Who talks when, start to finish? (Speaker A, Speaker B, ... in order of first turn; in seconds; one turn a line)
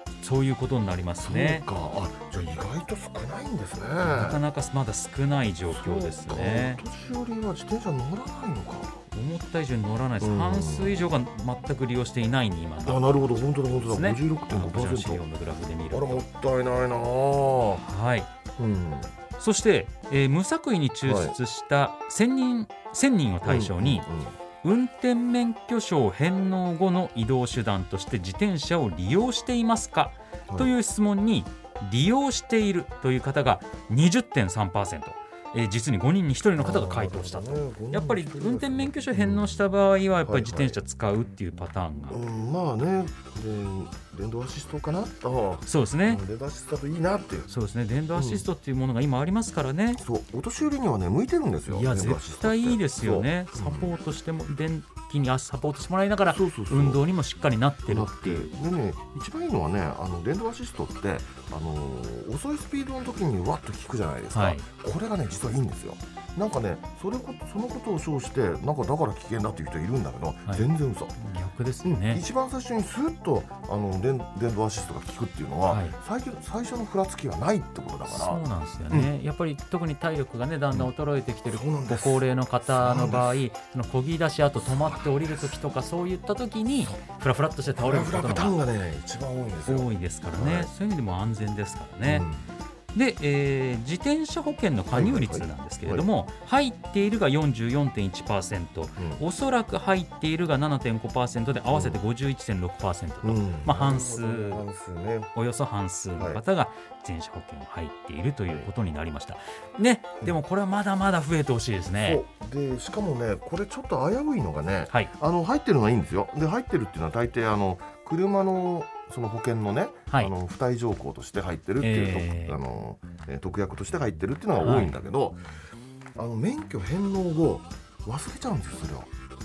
Speaker A: 0.2-1.6
Speaker B: 1.2-4.4
Speaker A: 4.0-6.8
Speaker B: 5.7-9.0
Speaker A: 9.1-16.2
Speaker B: 10.2-11.0
Speaker B: 12.8-15.2
Speaker B: 15.9-17.8
Speaker A: 17.8-18.3
Speaker B: 18.6-19.2
Speaker A: 19.4-24.1
Speaker B: 21.0-21.3
Speaker B: 23.4-24.3
Speaker A: 24.6-42.2
Speaker B: 36.6-39.6
Speaker B: 40.2-40.8
Speaker B: 42.1-47.5
Speaker A: 45.7-46.2
Speaker A: 47.5-50.0
Speaker B: 48.1-48.4
Speaker B: 50.0-53.9
Speaker A: 51.7-58.5
Speaker B: 56.3-57.0
Speaker B: 57.9-71.1
Speaker A: 64.3-64.6
Speaker A: 71.2-72.2
Speaker B: 71.8-79.1
Speaker A: 75.7-75.9
Speaker A: 78.1-88.6
Speaker B: 81.5-83.4
Speaker B: 84.7-85.5
Speaker B: 87.8-90.7
Speaker A: 89.7-92.3
Speaker B: 92.0-92.5
Speaker A: 92.9-104.6
Speaker B: 94.9-96.1
Speaker B: 99.0-99.2
Speaker B: 101.7-102.0
Speaker B: 103.2-105.3
Speaker A: 105.3-112.2
Speaker B: 106.2-106.4
Speaker B: 112.0-125.4
Speaker A: 121.8-122.6
Speaker A: 124.6-124.9
Speaker B: 126.2-129.1